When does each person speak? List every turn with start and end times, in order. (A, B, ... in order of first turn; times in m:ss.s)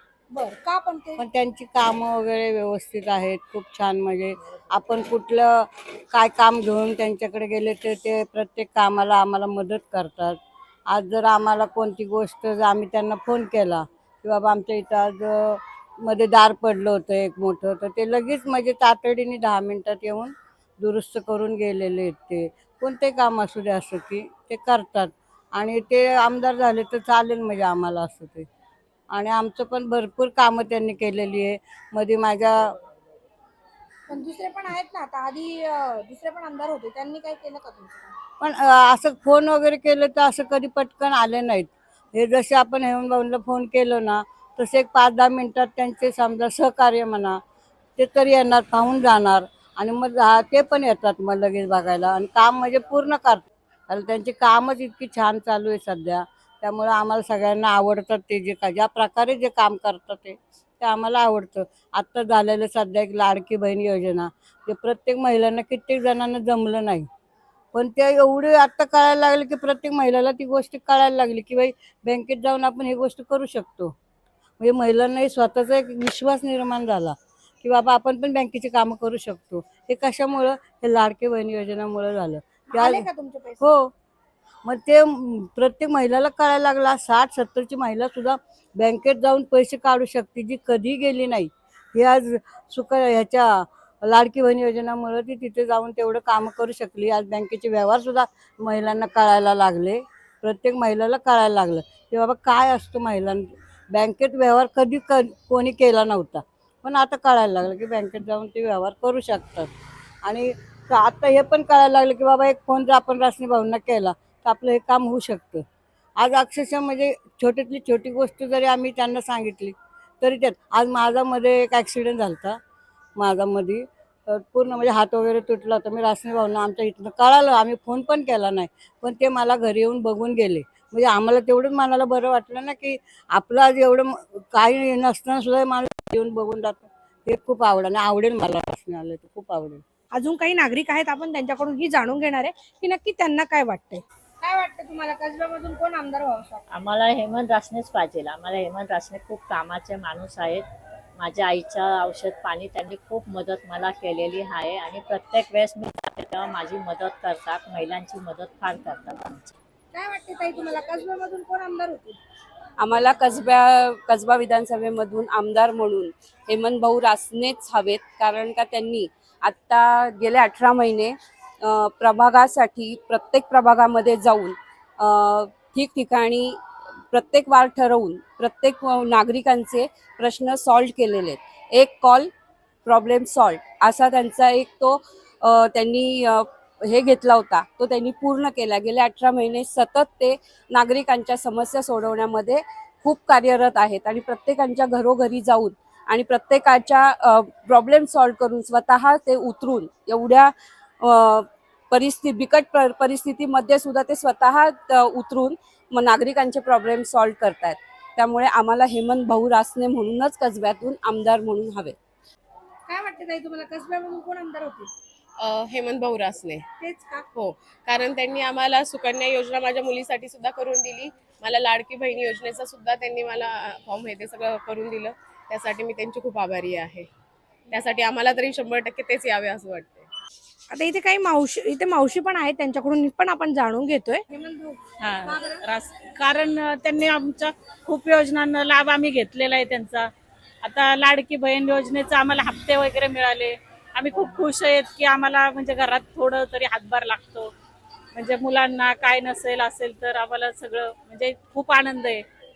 0:00.3-0:01.2 A
0:01.2-0:10.4 B
0:10.9-0:28.5 B
0:29.1-0:32.7 B
0:34.1-0:38.1 A
0:38.4-0:47.4 B
0:48.0-1:07.1 B
1:07.7-1:13.9 B
1:14.6-1:23.1 B
1:22.7-1:23.6 A
1:23.6-1:23.9 B
1:24.6-1:49.7 B
1:50.2-1:55.6 B
1:56.2-2:02.6 B
2:03.2-2:19.8 B
2:20.1-2:26.6 A
2:26.7-2:30.6 C
2:31.2-2:39.5 C
2:39.9-2:42.2 A
2:42.8-2:56.6 D
2:57.1-3:02.3 D
3:02.8-3:31.9 D
3:32.9-3:34.9 A
3:35.4-3:36.6 E
3:36.8-3:37.3 A
3:37.3-3:47.1 E
3:47.7-3:50.1 E
3:50.7-3:55.6 A
3:55.0-4:00.1 F
4:00.6-4:07.5 F
4:08.1-4:12.2 F